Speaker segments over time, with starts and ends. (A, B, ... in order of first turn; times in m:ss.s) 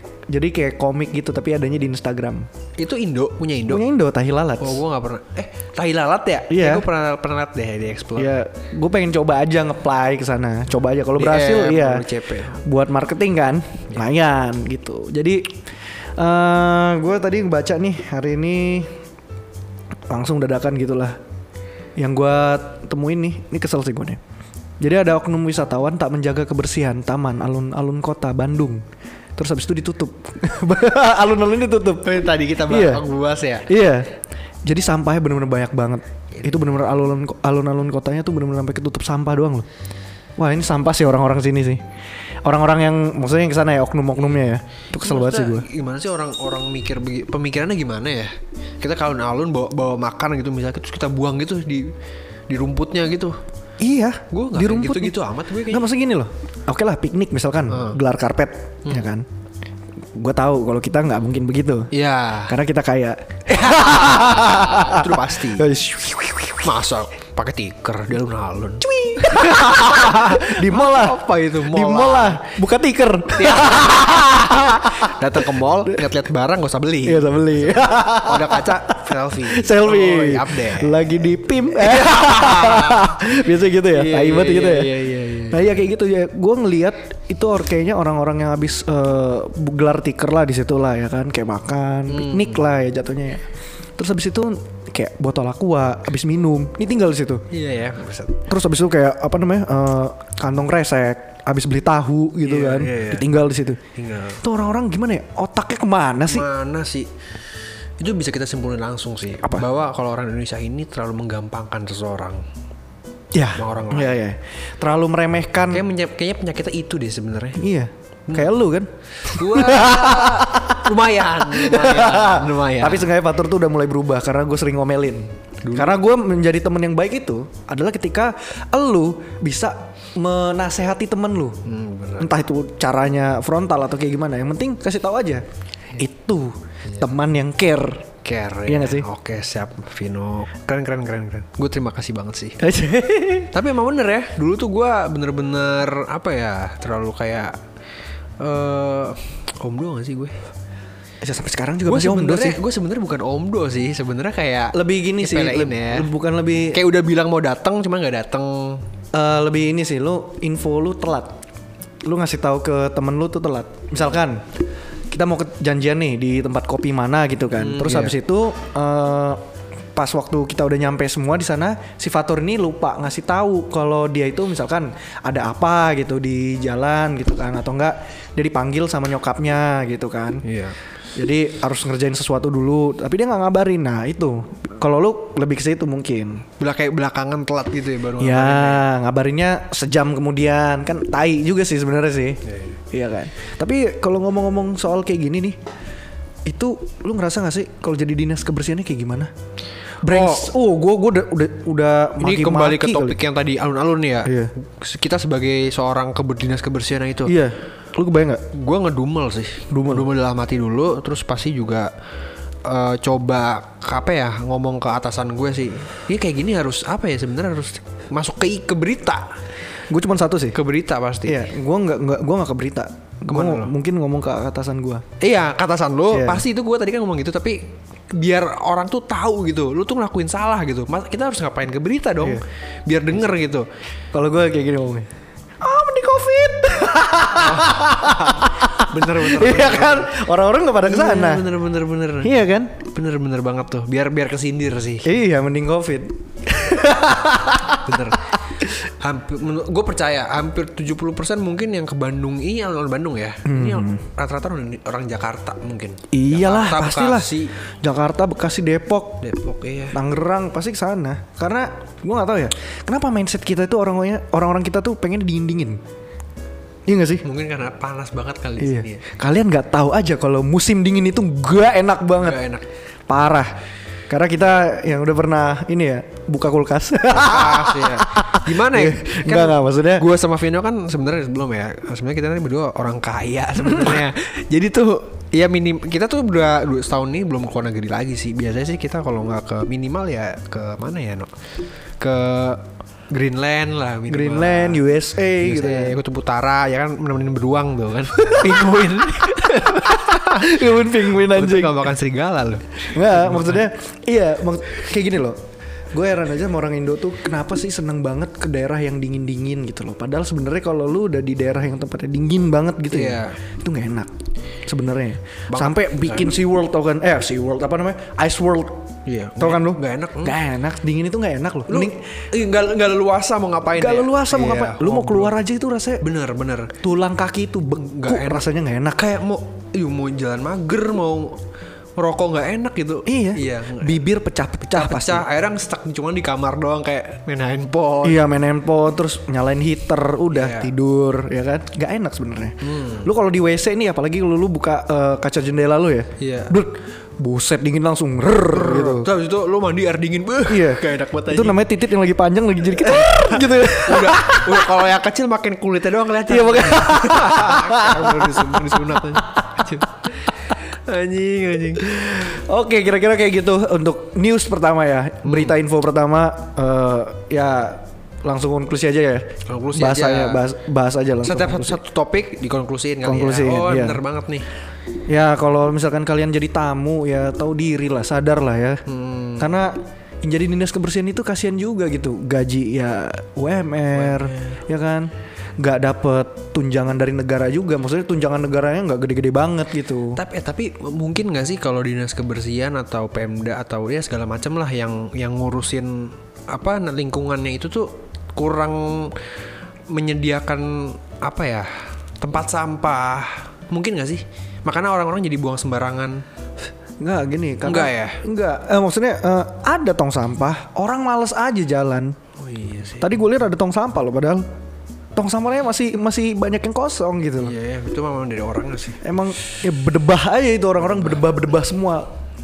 0:00.3-0:02.5 A
0:02.8-0:03.8 B
0:03.7-0:04.8 A
0:04.6-0:08.4 B
0:06.5-0:06.8 A
0:08.2-0:12.0 A
0:11.2-0:12.6 B
0:12.6-0:15.6 A
0:16.2-0:18.9 A
0:20.1-0:21.2 A
0:22.0-0:24.2 A
0:24.8-0:28.8 A
0:29.4-0:33.0 A
0:32.0-0:33.7 B
0:33.6-0:34.1 A
0:34.6-0:39.6 A
0:36.3-0:36.7 B
0:40.4-0:41.8 A
0:42.4-0:45.6 A
0:44.9-0:51.9 B
0:52.5-0:53.4 B
0:53.8-0:59.2 A
0:54.3-0:55.9 B
0:57.7-0:58.0 B
1:00.1-1:01.9 A
1:01.9-1:02.5 B
1:02.5-1:06.7 A
1:03.5-1:05.7 B
1:06.6-1:12.4 B
1:08.8-1:15.2 A
1:13.3-1:14.3 B
1:15.0-1:23.2 B
1:17.0-1:24.9 A
1:23.9-1:25.8 B
1:25.5-1:33.4 A
1:32.1-1:32.6 B
1:34.0-1:37.4 A
1:37.5-1:38.4 B
1:38.5-1:43.8 A
1:42.4-1:43.3 B
1:43.9-1:44.4 B
1:44.4-1:46.5 A
1:46.3-1:47.1 B
1:48.0-1:52.4 B
1:53.3-1:55.8 A
1:53.5-1:54.2 B
1:55.7-1:57.6 B
1:57.6-2:11.6 A
1:58.3-1:58.5 B
1:59.2-2:03.1 B
2:05.6-2:06.0 B
2:11.6-2:12.4 B
2:12.2-2:15.4 A
2:16.0-2:18.1 A
2:18.2-2:22.6 B
2:18.6-2:19.1 A
2:22.6-2:23.5 A
2:23.5-2:27.6 B
2:28.4-2:30.4 B
2:31.2-2:32.6 A
2:31.8-2:36.1 B
2:34.7-2:36.8 A
2:36.7-2:38.8 B
2:39.1-2:41.4 A
2:42.0-2:44.4 A
2:45.1-2:49.4 A
2:47.6-2:48.1 B
2:49.9-3:00.4 A
3:00.4-3:00.8 B
3:01.1-3:06.4 A
3:06.6-3:08.9 B
3:08.2-3:12.4 A
3:12.5-3:12.7 B
3:12.9-3:15.6 A
3:16.4-3:19.3 A
3:20.0-3:23.2 A
3:20.1-3:20.5 B
3:22.2-3:27.4 B
3:24.2-3:24.5 A
3:27.2-3:28.4 A
3:28.5-3:31.9 B
3:29.7-3:30.0 A
3:32.6-3:39.3 B
3:39.9-3:40.6 A
3:40.5-3:41.5 B
3:41.2-3:45.0 A
3:43.3-3:43.7 B
3:45.2-3:53.6 B
3:46.1-3:46.4 A
3:54.1-3:55.1 A
3:55.6-4:01.5 A
3:57.3-4:00.1 B
4:00.8-4:05.1 B
4:02.2-4:02.8 A
4:05.0-4:08.1 A
4:07.8-4:17.6 B
4:13.4-4:14.0 A
4:16.1-4:19.2 A
4:19.2-4:20.0 B
4:19.9-4:25.8 A
4:26.9-4:27.2 A
4:27.2-4:29.0 B
4:28.6-4:32.4 A
4:32.2-4:32.6 B
4:33.1-4:33.6 A
4:34.1-4:40.0 A
4:37.1-4:51.3 B
4:52.0-4:54.8 B
4:54.1-4:56.0 A
4:55.4-5:03.6 B
4:58.2-5:01.9 A
5:02.9-5:05.4 A
5:05.9-5:14.1 A
5:12.9-5:13.4 B
5:14.6-5:22.2 A
5:15.5-5:16.3 B
5:19.0-5:20.4 B
5:21.7-5:25.3 B
5:23.7-5:26.0 A
5:26.0-5:26.7 B
5:26.8-5:29.1 A
5:27.9-5:31.4 B
5:32.0-5:34.0 B
5:33.0-5:35.2 A
5:34.7-5:38.2 B
5:38.0-5:49.1 A
5:40.3-5:40.7 B
5:42.6-5:43.1 B
5:46.2-5:46.5 B
5:48.5-5:51.6 B
5:50.5-5:54.7 A
5:52.8-6:02.4 B
5:56.3-5:59.0 A
6:02.0-6:11.8 A
6:05.2-6:05.6 B
6:09.4-6:10.4 B
6:11.2-6:14.5 B
6:13.0-6:14.0 A
6:15.1-6:18.8 A
6:18.8-6:19.5 B
6:19.4-6:30.2 A
6:23.9-6:24.6 B
6:30.1-6:39.3 B
6:39.9-6:46.2 B
6:47.0-6:52.2 A
6:47.6-6:48.2 B
6:52.4-6:53.1 B
6:53.0-6:54.4 A
6:55.1-6:57.5 A
6:57.4-6:59.0 B
6:59.0-7:02.1 A
7:00.8-7:01.2 B